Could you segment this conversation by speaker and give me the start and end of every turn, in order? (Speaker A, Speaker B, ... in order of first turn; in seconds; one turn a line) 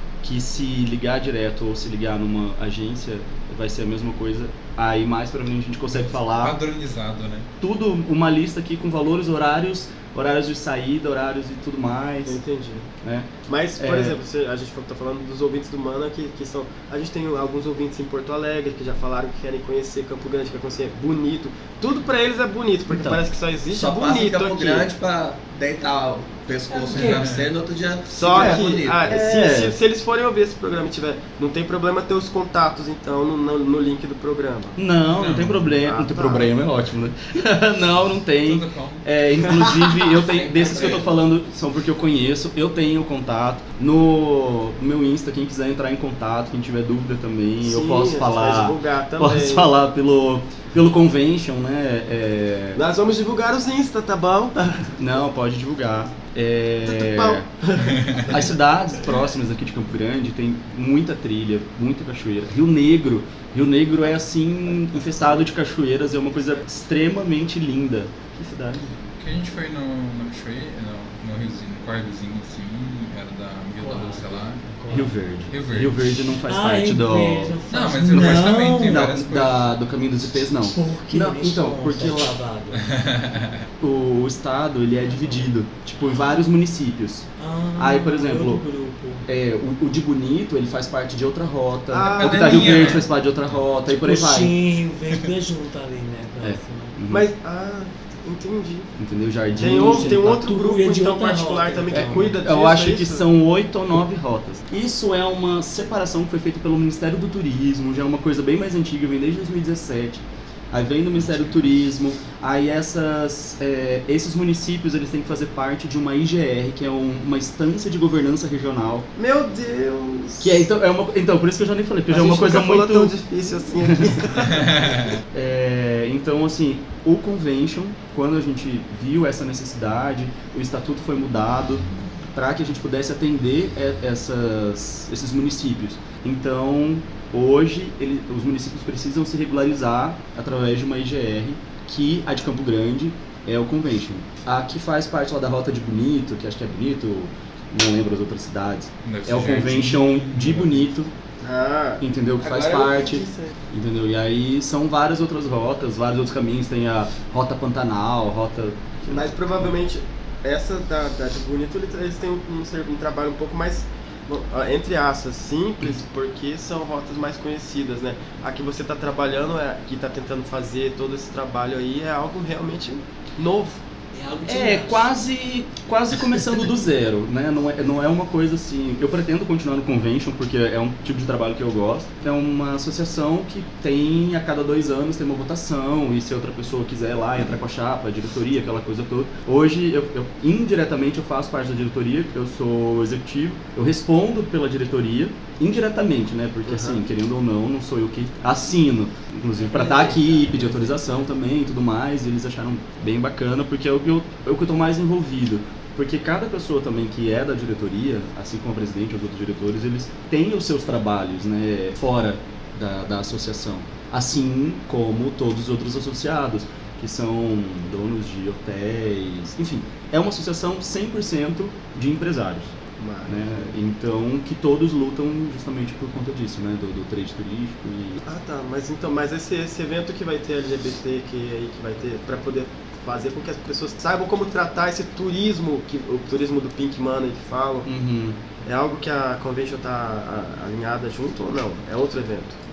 Speaker A: 0.2-6.5
Speaker B: 5.9-7.5
Speaker A: 7.6-12.4
Speaker C: 12.2-12.8
Speaker A: 13.0-14.2
Speaker C: 13.5-24.9
Speaker A: 22.9-23.2
Speaker D: 23.7-29.2
Speaker E: 26.7-27.3
Speaker B: 26.9-27.4
Speaker C: 28.1-34.8
Speaker A: 28.3-29.8
Speaker A: 34.8-52.8
Speaker B: 35.1-35.7
Speaker C: 35.8-36.5
Speaker B: 38.4-39.0
Speaker D: 40.2-41.2
Speaker C: 47.6-49.7
Speaker C: 52.7-55.0
Speaker A: 55.0-57.5
Speaker C: 56.8-58.5
Speaker B: 57.9-58.3
Speaker A: 58.2-68.9
Speaker B: 69.2-74.6
Speaker E: 73.8-75.1
Speaker A: 74.9-77.5
Speaker B: 75.5-76.1
Speaker E: 76.5-79.0
Speaker B: 77.7-79.7
Speaker A: 78.1-82.3
Speaker E: 80.7-82.8
Speaker B: 82.7-83.7
Speaker A: 83.8-87.2
Speaker E: 85.1-85.5
Speaker E: 87.4-89.2
Speaker A: 87.8-88.6
Speaker A: 89.2-94.5
Speaker C: 91.9-93.0
Speaker B: 92.1-93.1
Speaker E: 93.9-96.9
Speaker A: 96.4-97.3
Speaker C: 97.1-98.9
Speaker A: 99.0-100.4
Speaker C: 99.6-103.2
Speaker E: 99.6-102.3
Speaker A: 101.9-119.1
Speaker B: 111.2-111.7
Speaker C: 119.2-120.7
Speaker A: 120.4-123.1
Speaker C: 122.1-124.8
Speaker A: 123.8-124.3
Speaker B: 124.5-125.2
Speaker A: 125.3-151.1
Speaker B: 149.0-150.8
Speaker C: 151.4-153.5
Speaker A: 152.0-159.4
Speaker C: 159.1-173.8
Speaker E: 174.1-175.1
Speaker A: 174.4-222.7
Speaker C: 196.7-197.0
Speaker E: 199.6-201.1
Speaker C: 223.0-223.7
Speaker A: 223.2-228.2
Speaker C: 228.2-237.9
Speaker A: 237.8-238.4
Speaker C: 238.6-242.6